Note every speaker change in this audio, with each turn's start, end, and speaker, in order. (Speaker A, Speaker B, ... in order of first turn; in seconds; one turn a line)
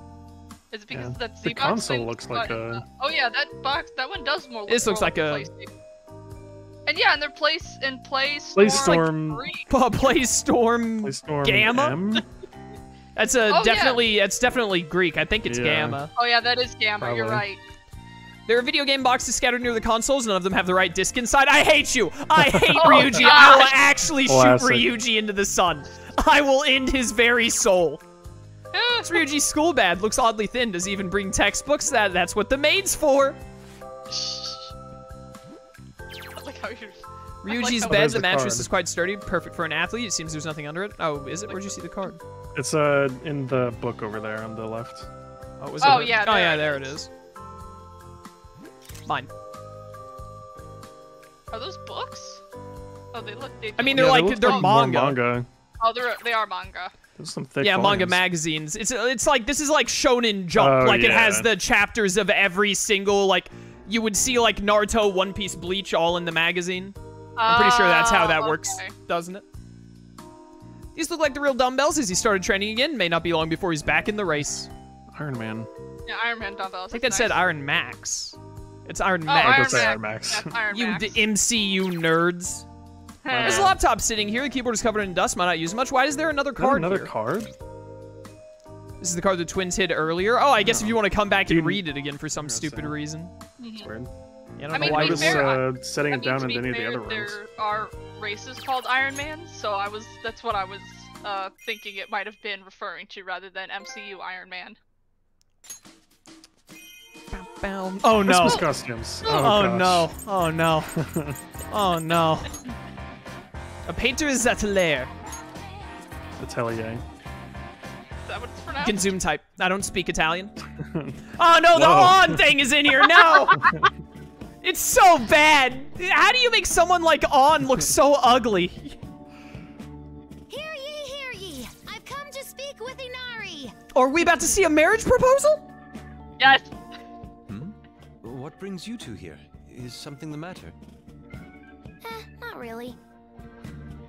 Speaker A: 0.7-5.7
Speaker B: 0.9-2.8
Speaker C: 4.7-5.5
Speaker A: 6.9-9.7
Speaker B: 8.5-9.4
Speaker C: 8.6-9.1
Speaker C: 9.7-12.0
Speaker B: 11.0-12.2
Speaker C: 13.2-16.1
Speaker A: 13.5-14.0
Speaker B: 15.4-16.0
Speaker A: 16.1-17.6
Speaker B: 17.0-17.4
Speaker C: 18.5-28.0
Speaker A: 22.7-23.8
Speaker B: 24.2-24.9
Speaker A: 28.7-29.2
Speaker C: 29.0-33.4
Speaker A: 34.1-34.7
Speaker A: 36.4-38.1
Speaker C: 37.4-42.2
Speaker B: 37.8-38.7
Speaker B: 42.5-45.1
Speaker C: 45.6-47.1
Speaker B: 45.8-46.1
Speaker A: 45.8-47.0
Speaker A: 51.5-52.4
Speaker A: 53.1-54.6
Speaker C: 53.8-55.2
Speaker B: 53.9-55.5
Speaker A: 55.8-56.9
Speaker B: 57.1-58.2
Speaker C: 57.6-69.4
Speaker B: 60.5-61.5
Speaker A: 67.4-68.9
Speaker C: 70.9-74.7
Speaker B: 75.1-75.7
Speaker A: 76.0-77.4
Speaker C: 76.9-80.0
Speaker A: 79.2-81.3
Speaker B: 79.4-80.5
Speaker C: 80.7-82.7
Speaker A: 83.2-83.7
Speaker B: 83.3-83.8
Speaker C: 83.3-87.1
Speaker B: 86.5-87.5
Speaker C: 89.0-93.3
Speaker B: 90.6-93.0
Speaker A: 93.6-93.9
Speaker B: 93.7-94.1
Speaker C: 94.6-95.6
Speaker A: 94.7-104.8
Speaker B: 94.8-97.4
Speaker C: 107.3-108.6
Speaker B: 108.2-110.1
Speaker C: 109.2-110.9
Speaker B: 110.9-111.4
Speaker C: 111.7-112.5
Speaker C: 113.8-115.1
Speaker B: 116.4-117.0
Speaker A: 118.2-119.1
Speaker C: 118.8-120.6
Speaker B: 120.8-121.2
Speaker C: 121.3-123.8
Speaker B: 121.7-122.4
Speaker C: 124.6-129.0
Speaker D: 130.5-133.7
Speaker C: 133.9-135.6
Speaker A: 136.4-136.7
Speaker E: 137.5-140.8
Speaker D: 142.0-143.0